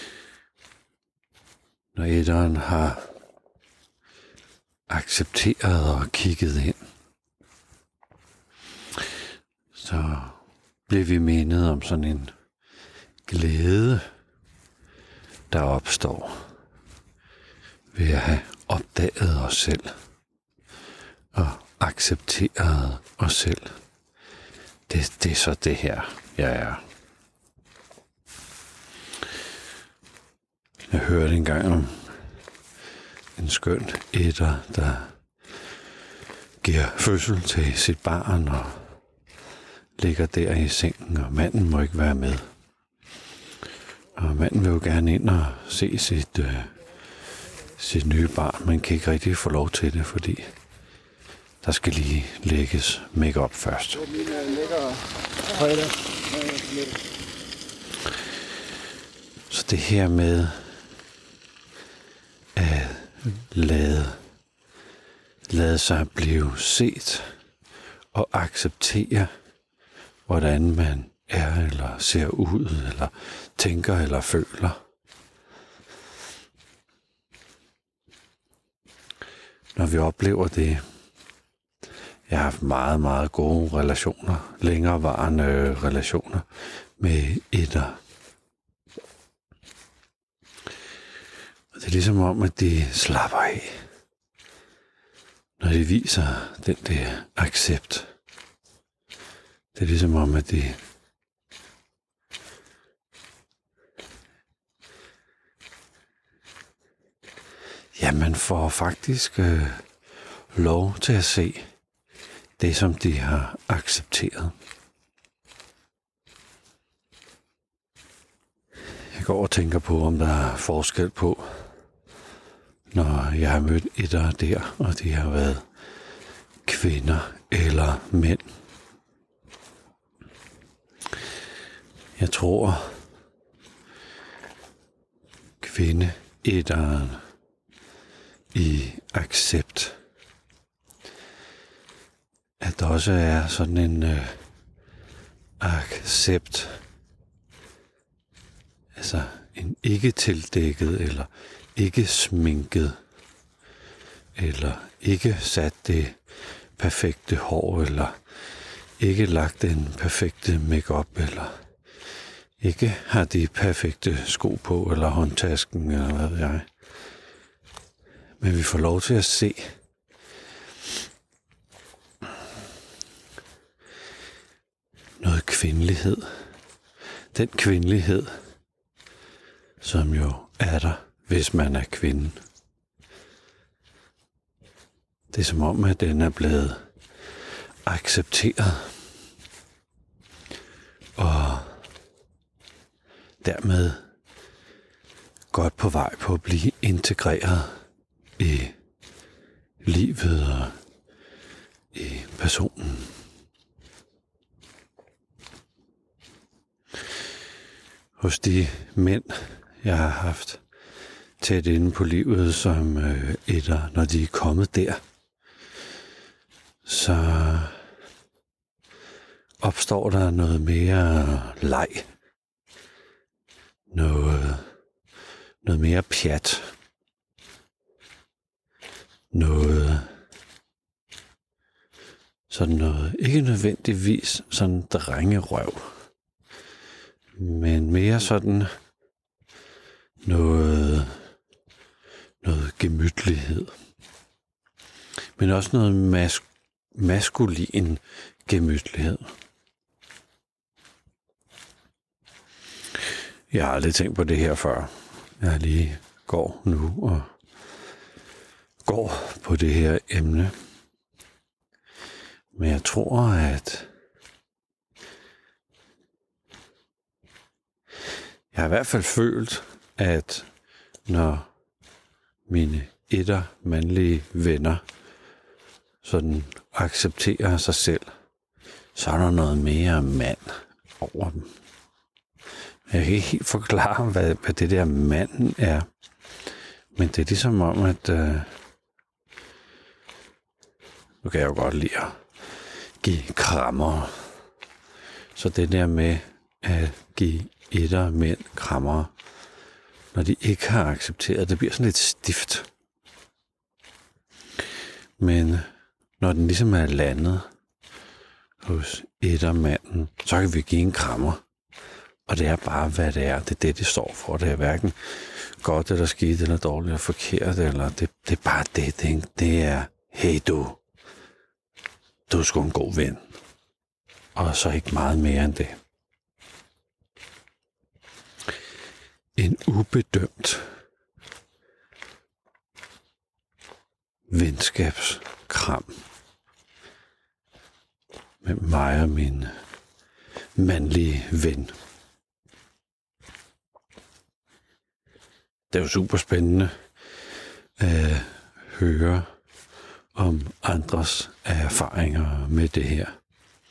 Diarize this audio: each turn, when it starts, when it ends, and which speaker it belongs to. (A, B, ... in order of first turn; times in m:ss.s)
0:01.9-0:03.0 A
0:04.9-0:06.8 A
0:09.7-0:12.3 A
0:13.2-0:14.0 A
0:15.5-0:16.5 A
0:17.9-0:20.0 A
0:21.3-0:23.8 A
0:24.9-0:26.8 A
0:30.9-0:32.2 A
0:33.4-0:35.2 A
0:36.6-0:39.0 A
0:40.0-0:42.5 A
0:44.1-0:46.8 A
0:47.6-0:50.5 A
0:51.6-0:54.2 A
0:59.5-1:00.8 A
1:02.5-1:04.2 A
1:05.5-1:07.4 A
1:08.1-1:09.3 A
1:10.3-1:14.8 A
1:19.7-1:20.8 A
1:22.3-1:28.0 A
1:31.7-1:33.8 A
1:35.6-1:38.1 A
1:39.7-1:40.8 A
1:47.9-1:49.9 A
1:50.5-1:51.7 A
1:52.6-1:54.5 A
1:59.1-2:01.7 A
2:02.9-2:05.7 A
2:06.6-2:08.5 A
2:12.2-2:13.0 A
2:15.6-2:17.2 A
2:18.5-2:20.0 A
2:22.6-2:24.4 A
2:25.6-2:26.8 A
2:28.9-2:33.0 A
2:34.3-2:36.2 A
2:36.8-2:38.2 A
2:39.0-2:41.6 A
2:42.6-2:46.7 A
2:48.4-2:49.7 A
2:55.2-2:56.4 A
2:57.3-2:58.4 A
2:59.8-3:02.4 A
3:05.3-3:06.9 A
3:07.8-3:09.0 A
3:11.2-3:11.8 A
3:13.4-3:14.1 A
3:15.5-3:17.8 A
3:18.4-3:18.8 A
3:19.8-3:20.8 A
3:21.9-3:23.2 A
3:28.2-3:30.6 A
3:31.4-3:35.0 A
3:36.8-3:37.9 A
3:39.6-3:42.1 A
3:43.9-3:44.7 A
3:45.6-3:46.7 A
3:49.3-3:50.2 A
3:52.5-3:56.0 A
3:57.4-3:58.7 A
4:00.2-4:01.3 A
4:02.4-4:03.8 A
4:05.4-4:09.3 A
4:13.5-4:17.3 A
4:18.8-4:20.5 A
4:22.5-4:23.9 A
4:28.5-4:30.5 A
4:31.1-4:31.5 A
4:32.5-4:34.8 A
4:36.0-4:38.1 A
4:38.9-4:41.5 A
4:42.9-4:45.9 A
4:46.9-4:48.5 A
4:51.2-4:52.2 A
4:53.0-4:54.3 A
4:55.3-4:59.1 A
5:00.1-5:02.7 A
5:05.2-5:07.5 A
5:08.6-5:11.4 A
5:12.3-5:20.8 A
5:22.3-5:23.2 A
5:24.4-5:25.8 A
5:29.4-5:30.7 A
5:34.3-5:36.0 A
5:38.4-5:39.5 A
5:40.5-5:41.8 A
5:45.7-5:46.8 A
5:47.8-5:49.3 A
5:50.1-5:53.2 A